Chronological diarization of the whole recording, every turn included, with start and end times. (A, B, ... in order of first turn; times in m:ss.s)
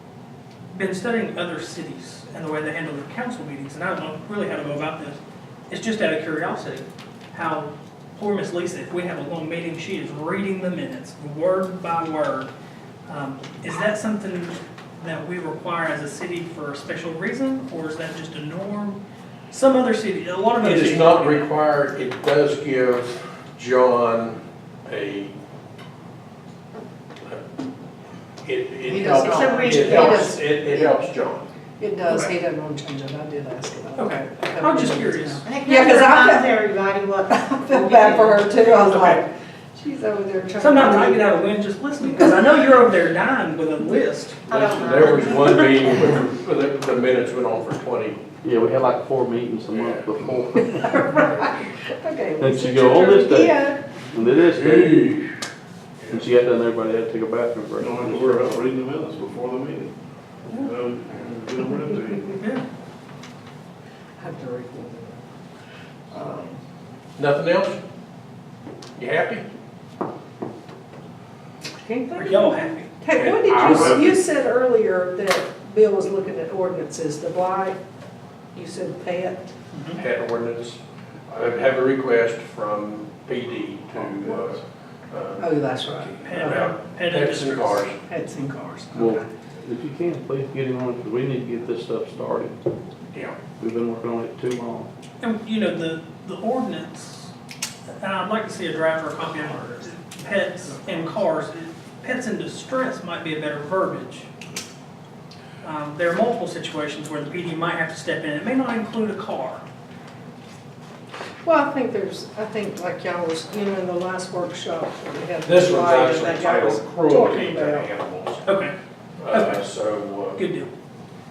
0:00.7-0:05.2 A
0:05.7-0:12.5 A
0:13.1-0:19.0 A
0:19.5-0:21.5 A
0:20.6-0:25.3 B
0:28.4-0:31.5 B
0:28.8-0:31.0 C
0:29.2-0:30.3 D
0:31.8-0:36.6 C
0:34.0-0:35.4 A
0:35.4-0:37.5 D
0:37.3-0:41.3 C
0:37.7-0:39.2 A
0:40.6-0:44.4 A
0:44.5-0:45.8 D
0:44.5-0:48.3 B
0:45.4-0:45.8 A
0:48.4-0:51.2 E
0:49.7-0:50.0 B
0:50.8-0:53.8 C
0:52.4-0:55.2 E
0:54.5-0:55.3 B
0:56.0-0:56.3 B
0:56.1-0:58.6 E
0:57.8-0:59.9 B
0:58.0-0:59.9 F
1:00.8-1:02.3 F
1:02.4-1:02.6 A
1:04.2-1:05.2 C
1:06.1-1:06.6 C
1:07.2-1:07.8 B
1:09.0-1:09.4 B
1:11.8-1:17.8 C
1:12.1-1:12.9 A
1:13.1-1:14.2 B
1:13.7-1:14.0 F
1:18.5-1:19.5 C
1:19.7-1:20.0 A
1:20.0-1:20.8 B
1:21.3-1:28.0 B
1:25.4-1:26.7 C
1:26.2-1:27.9 A
1:28.1-1:29.2 C
1:28.9-1:32.6 E
1:33.1-1:33.4 B
1:33.6-1:34.9 E
1:35.2-1:37.3 A
1:37.9-1:44.3 A
1:45.6-1:49.6 A
1:51.4-1:57.9 C
1:55.4-1:58.4 B
1:58.4-1:58.7 A
1:59.2-2:00.4 B
1:59.3-1:59.6 A
2:00.4-2:00.7 A